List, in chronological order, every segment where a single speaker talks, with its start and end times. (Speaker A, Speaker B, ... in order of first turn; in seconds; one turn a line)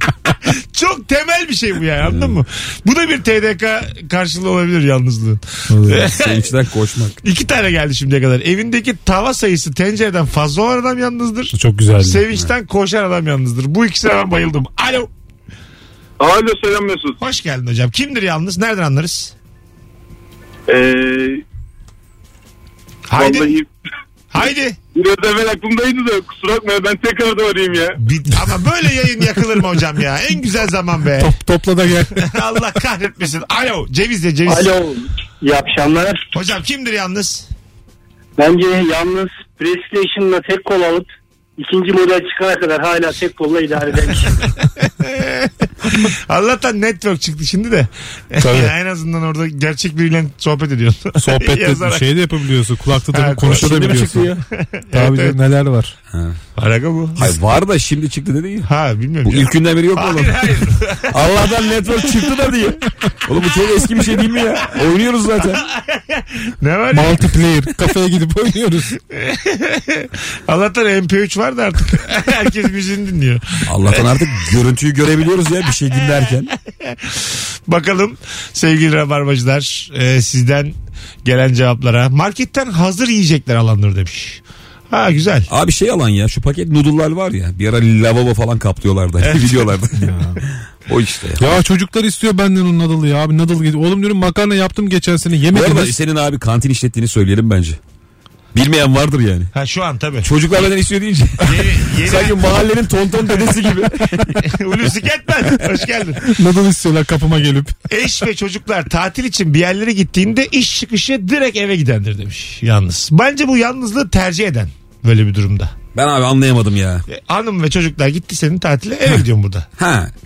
Speaker A: 0.5-6.6
Speaker B: 2.1-2.4
Speaker C: 5.7-6.0
Speaker B: 5.9-7.2
Speaker A: 7.2-15.1
Speaker C: 11.5-12.2
Speaker D: 16.2-17.2
Speaker A: 17.2-19.3
Speaker D: 20.7-21.4
Speaker A: 23.1-23.6
Speaker D: 23.2-23.7
Speaker A: 24.3-24.8
Speaker D: 24.9-28.0
Speaker A: 28.0-31.3
Speaker C: 31.2-32.4
Speaker A: 32.2-34.7
Speaker E: 34.5-36.3
Speaker A: 36.3-37.5
Speaker E: 38.4-44.5
Speaker A: 45.0-45.5
Speaker A: 46.0-52.4
Speaker C: 48.4-48.7
Speaker C: 51.2-54.3
Speaker A: 53.1-53.6
Speaker B: 53.4-54.4
Speaker A: 54.5-55.4
Speaker C: 54.9-56.0
Speaker B: 56.1-56.4
Speaker A: 56.6-57.3
Speaker B: 57.2-58.7
Speaker A: 58.7-61.4
Speaker B: 59.2-65.6
Speaker A: 65.6-67.6
Speaker C: 66.9-69.0
Speaker A: 69.1-74.3
Speaker B: 73.7-76.5
Speaker A: 76.8-85.5
Speaker B: 85.5-90.0
Speaker A: 89.2-89.8
Speaker C: 90.0-90.4
Speaker B: 90.9-91.4
Speaker C: 91.4-96.0
Speaker B: 95.5-97.8
Speaker B: 98.5-99.5
Speaker A: 99.5-100.3
Speaker B: 100.2-104.5
Speaker A: 101.4-102.7
Speaker A: 103.3-103.8
Speaker A: 104.4-106.3
Speaker C: 106.2-107.7
Speaker A: 107.9-115.8
Speaker B: 115.9-117.1
Speaker A: 117.1-119.7
Speaker B: 119.8-120.1